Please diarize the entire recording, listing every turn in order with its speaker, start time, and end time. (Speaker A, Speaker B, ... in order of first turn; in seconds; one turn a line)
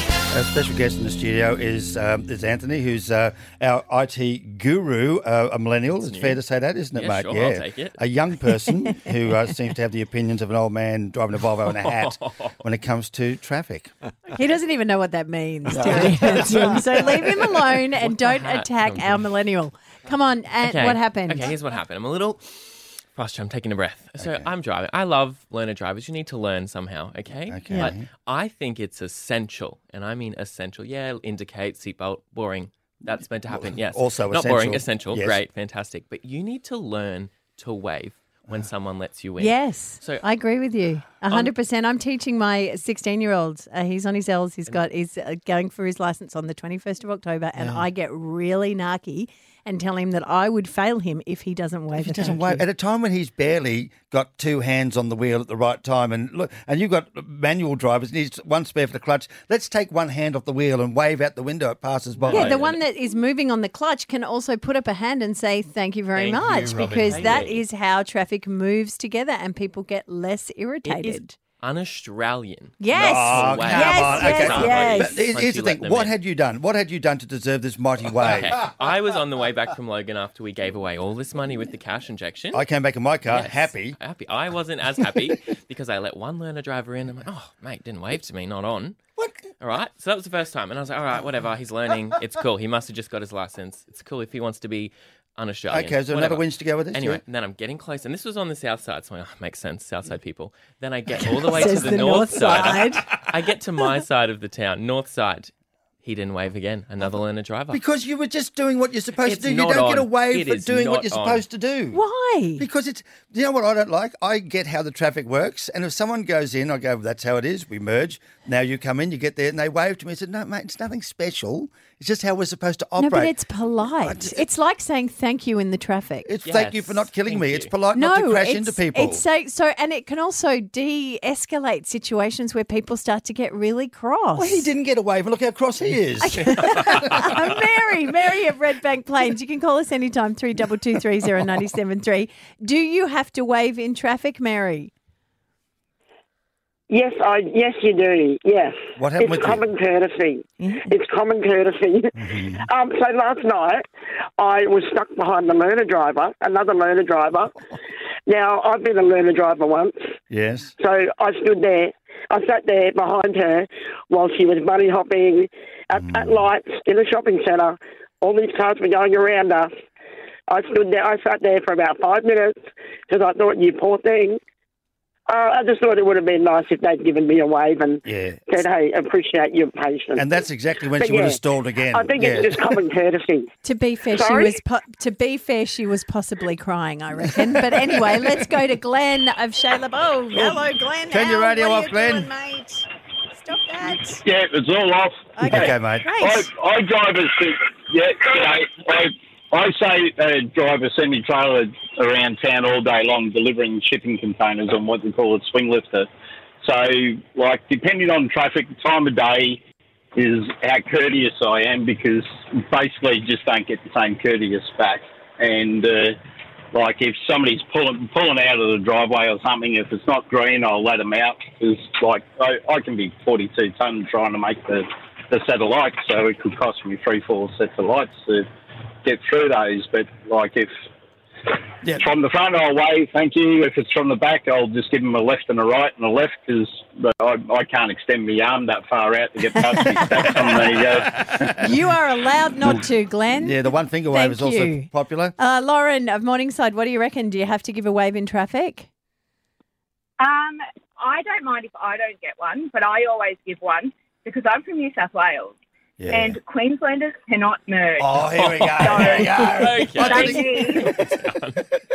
Speaker A: 0.3-13.9
Speaker B: 6.0-6.4
Speaker B: 6.9-8.0
Speaker B: 11.7-12.5
Speaker C: 14.3-21.5
Speaker A: 15.8-16.3
Speaker B: 18.0-19.2
Speaker B: 20.6-40.2
Speaker A: 24.2-24.5
Speaker A: 27.5-28.1
Speaker A: 33.5-35.4
Speaker C: 39.4-52.6
Speaker B: 41.3-41.5
Speaker A: 47.5-47.9
Speaker A: 52.0-62.6
Speaker B: 62.2-62.8
Speaker C: 62.3-71.4
Speaker B: 66.1-67.6
Speaker B: 70.8-76.1
Speaker C: 72.8-75.2
Speaker A: 72.9-78.6
Speaker B: 78.2-82.6
Speaker A: 82.5-84.0
Speaker B: 83.3-89.0
Speaker A: 89.2-89.4
Speaker B: 89.6-105.5
Speaker A: 95.7-97.2
Speaker C: 101.5-103.0
Speaker A: 102.3-103.0
Speaker B: 106.0-107.8
Speaker A: 107.7-112.0
Speaker B: 109.2-111.5
Speaker C: 111.9-112.6
Speaker A: 112.6-123.3
Speaker C: 123.0-126.3
Speaker A: 124.0-124.4
Speaker A: 126.2-129.2
Speaker B: 126.4-127.7
Speaker C: 127.9-134.7
Speaker A: 134.3-137.4
Speaker C: 136.2-144.9
Speaker D: 146.9-153.8
Speaker A: 149.0-149.7
Speaker C: 150.6-150.9
Speaker A: 152.2-152.6
Speaker D: 154.4-157.6
Speaker D: 158.3-159.9
Speaker A: 160.3-160.7
Speaker D: 160.8-169.7
Speaker A: 166.0-166.4
Speaker D: 170.5-174.4
Speaker D: 175.3-180.2
Speaker A: 178.1-178.4
Speaker A: 180.2-182.6
Speaker D: 181.0-181.4
Speaker D: 181.9-183.5
Speaker C: 183.6-194.2
Speaker D: 184.1-184.6
Speaker A: 190.3-192.3
Speaker E: 194.2-206.1
Speaker C: 195.3-196.5
Speaker A: 195.4-196.1
Speaker E: 206.6-209.6
Speaker E: 210.2-216.2
Speaker E: 216.7-228.4
Speaker E: 229.0-230.7
Speaker E: 231.9-241.2
Speaker C: 239.9-240.3
Speaker C: 241.4-248.9
Speaker A: 243.4-245.3
Speaker F: 250.2-255.5
Speaker A: 256.0-256.4
Speaker F: 256.1-258.2
Speaker A: 258.0-261.2
Speaker B: 258.4-261.6
Speaker F: 258.8-260.9